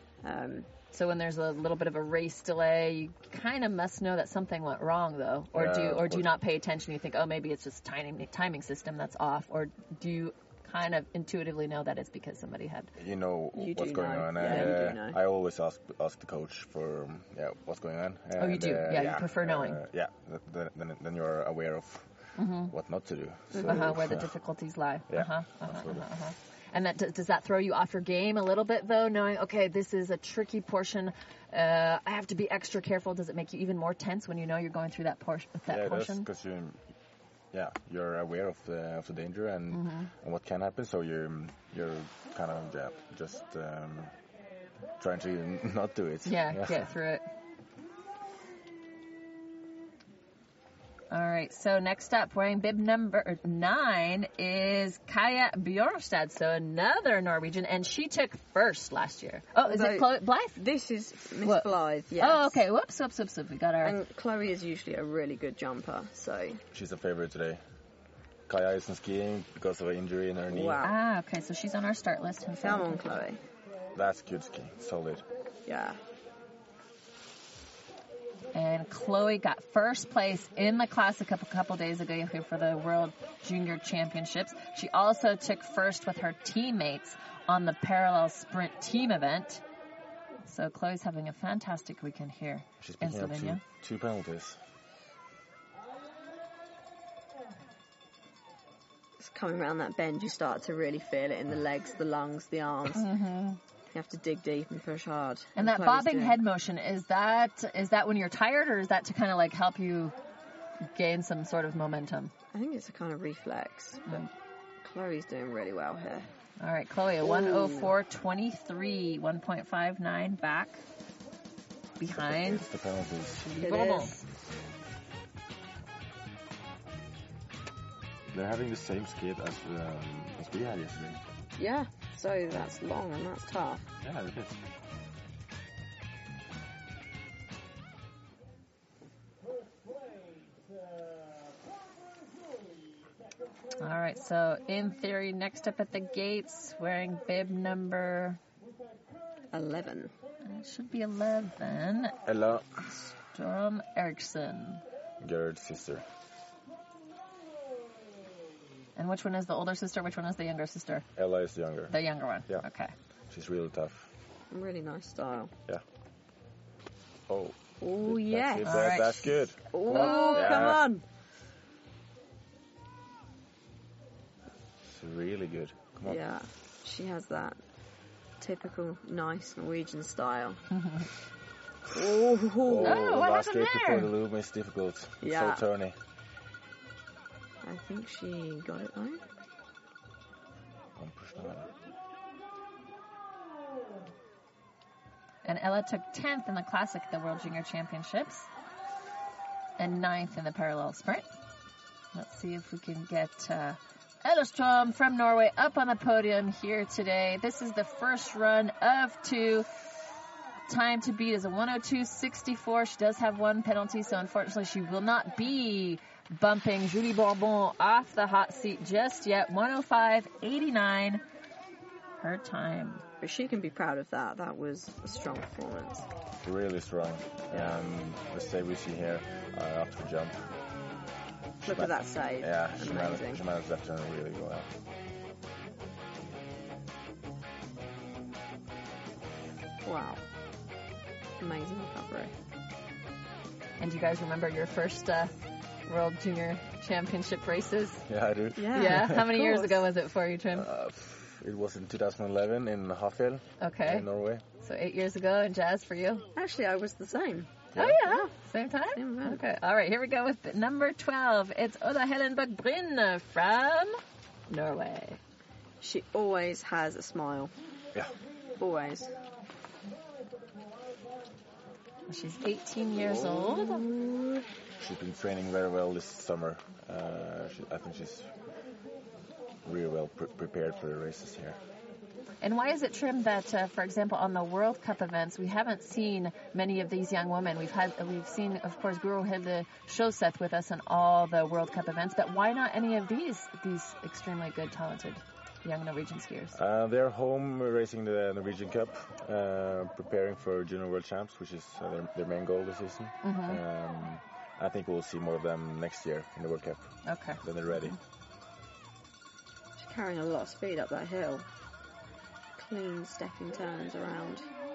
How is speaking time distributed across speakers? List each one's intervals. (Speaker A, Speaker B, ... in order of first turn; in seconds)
Speaker A: 0.2-0.7, 13.6-15.2, 23.5-23.9, 59.6-62.6, 63.8-66.6, 70.5-71.0, 72.6-73.4, 75.7-76.0, 99.2-103.1, 103.9-106.4, 112.5-114.3, 114.8-116.3, 117.2-117.9, 123.6-124.2, 131.6-133.9, 149.5-150.1, 164.5-165.5, 167.8-169.1, 169.7-171.0, 176.1-177.6, 178.4-180.6, 181.9-183.1, 185.2-185.6, 187.6-189.2, 223.2-226.1, 227.5-227.8, 231.6-233.4, 239.8-240.2, 241.4-242.3, 248.6-249.9, 256.4-258.3, 258.9-259.4, 265.8-267.5, 268.6-269.1, 273.2-274.4, 309.8-311.5, 312.6-314.5
Speaker B: 0.9-12.9, 18.4-19.8, 22.4-22.7, 23.6-36.3, 39.7-40.1, 46.3-47.2, 51.1-60.6, 61.4-64.0, 70.8-73.2, 78.5-89.6, 90.5-93.6, 102.9-103.6, 105.6-110.1, 110.9-112.3, 116.6-120.8, 122.0-122.7, 123.4-124.2, 143.8-148.4, 150.4-152.2, 153.2-154.8, 159.0-161.1, 161.9-162.9, 168.6-169.3, 169.8-170.6, 180.7-181.1, 182.8-184.1, 195.4-198.5, 199.8-201.3, 202.1-209.7, 210.7-221.2, 222.2-223.0, 243.8-245.3, 245.9-248.1, 248.7-250.7, 253.6-254.1, 254.6-256.3, 257.8-265.2, 272.1-273.9, 282.4-296.6, 303.2-303.6, 307.1-307.4
Speaker C: 5.5-6.3, 12.9-24.3, 25.1-26.1, 35.7-36.9, 37.5-44.1, 45.0-46.9, 66.7-67.6, 68.5-70.8, 74.0-75.3, 92.8-94.6, 122.1-123.6, 128.3-131.2, 134.0-134.6, 152.2-153.0, 155.2-156.1, 161.2-161.9, 163.3-164.1, 167.3-170.9, 174.8-176.2, 182.6-186.0, 191.0-191.7, 226.4-230.5, 231.6-234.7, 248.1-249.2, 250.6-254.4, 274.8-278.3, 279.6-281.6, 296.5-308.0